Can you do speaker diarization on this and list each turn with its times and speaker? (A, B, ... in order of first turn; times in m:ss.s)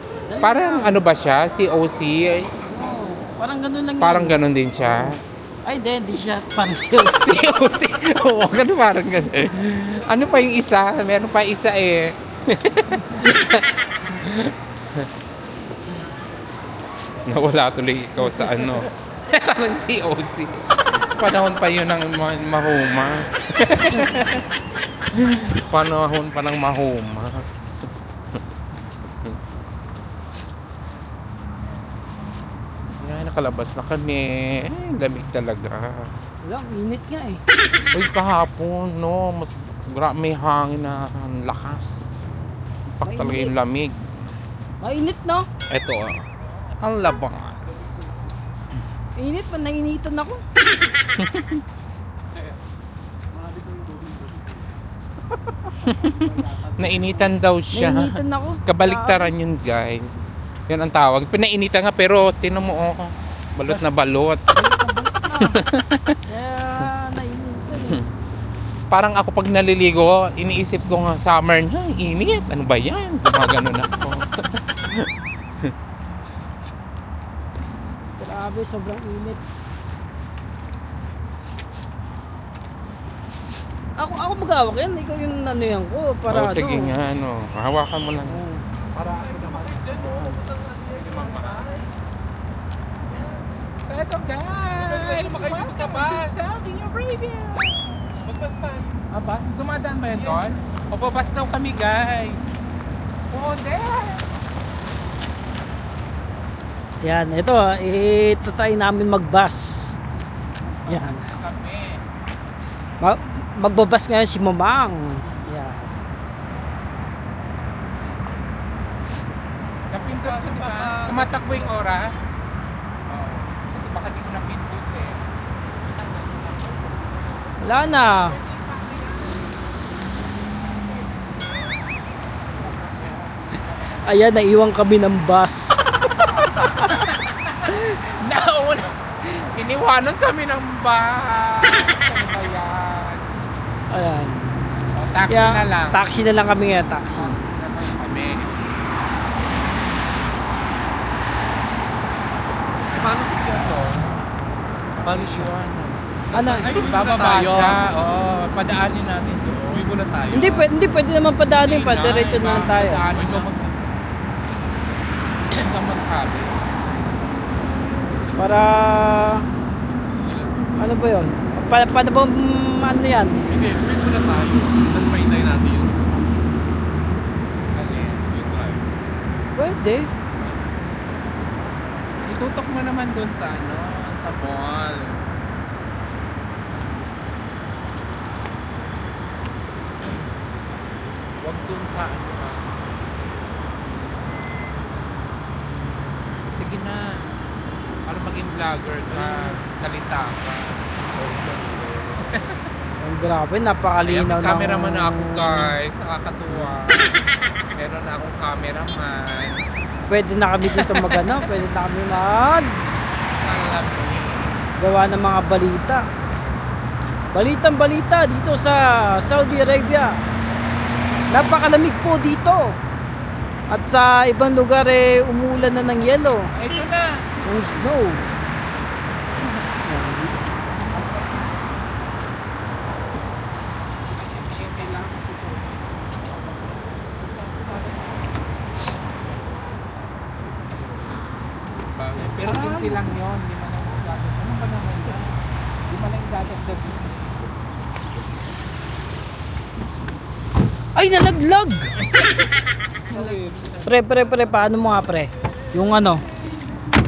0:00.3-0:01.0 A
0:00.4-0:02.6 B
0:02.7-0:05.1 A
0:04.0-0:05.2 B
0:05.6-0:07.3 A
0:07.2-0:15.1 B
0:17.2-0:24.4 B
0:25.1-0:27.4 B
0:33.0-0:36.1 B
0:36.4-0:37.4 A
0:37.9-0:42.1 B
0:43.0-0:44.0 B
0:43.0-0:43.5 A
0:44.8-0:45.5 A
0:45.7-0:48.2 B
0:49.2-0:50.4 A
0:51.1-0:51.6 B
0:52.3-0:52.6 C
0:53.4-0:54.6 C
0:55.8-1:04.4 B
0:56.2-0:57.2 A
0:57.7-0:59.3 A
1:04.5-1:05.6 A
1:05.4-1:06.2 B
1:06.3-1:08.0 A
1:08.9-1:15.1 B
1:18.2-1:19.4 A
1:24.0-1:27.0 A
1:26.3-1:28.4 B
1:28.2-1:28.6 A
1:28.9-1:30.4 B
1:29.1-1:31.9 C
1:31.1-1:31.5 B
1:33.9-1:38.1 B
1:34.8-1:36.4 C
1:38.2-1:39.1 C
1:39.1-1:42.5 B
1:43.3-1:44.2 B
1:47.0-1:50.0 A
1:50.7-1:52.0 B
1:50.9-1:51.2 A
1:53.0-1:55.9 A
1:59.9-2:02.3 B
2:00.2-2:01.7 C
2:03.1-2:05.2 B
2:05.8-2:07.6 B
2:07.6-2:08.3 A
2:08.2-2:09.4 B
2:12.6-2:13.8 B
2:13.8-2:16.0 A
2:16.1-2:23.3 B
2:23.9-2:24.7 A
2:24.9-2:26.0 B
2:25.3-2:27.3 A
2:27.1-2:28.5 B
2:32.9-2:34.2 C
2:35.0-2:36.0 B
2:35.0-2:35.5 C
2:36.2-2:37.8 C
2:36.3-2:36.8 A
2:36.7-2:39.9 B
2:39.7-2:40.8 C
2:40.3-2:43.1 A
2:41.6-2:43.6 B
2:43.1-2:43.8 C
2:45.5-2:46.6 B
2:48.4-2:49.4 A
2:49.9-2:51.0 C
2:50.8-2:53.4 A
2:53.5-2:56.1 C
2:57.7-2:58.2 B
2:58.3-2:58.8 C
2:59.6-3:00.1 A
3:02.2-3:05.2 B
3:11.4-3:12.7 B
3:16.4-3:17.0 B
3:18.1-3:20.8 B
3:19.1-3:19.6 C
3:21.2-3:22.0 C
3:22.2-3:22.6 B
3:23.0-3:25.7 A
3:24.0-3:29.6 B
3:30.1-3:32.7 A
3:30.7-3:31.2 B
3:33.4-3:34.7 B
3:34.8-3:36.0 A
3:37.3-3:40.2 A
3:41.3-3:42.7 A
3:43.7-3:46.5 A
3:46.5-3:47.2 B
3:47.4-3:48.2 A
3:49.8-3:50.4 A
3:50.9-3:51.4 B
3:54.1-3:55.4 B
3:57.4-3:58.0 B
4:00.6-4:01.0 C
4:01.9-4:05.3 B
4:05.9-4:07.0 B
4:11.0-4:12.0 A
4:12.9-4:13.7 B
4:13.2-4:13.7 C
4:13.8-4:16.2 A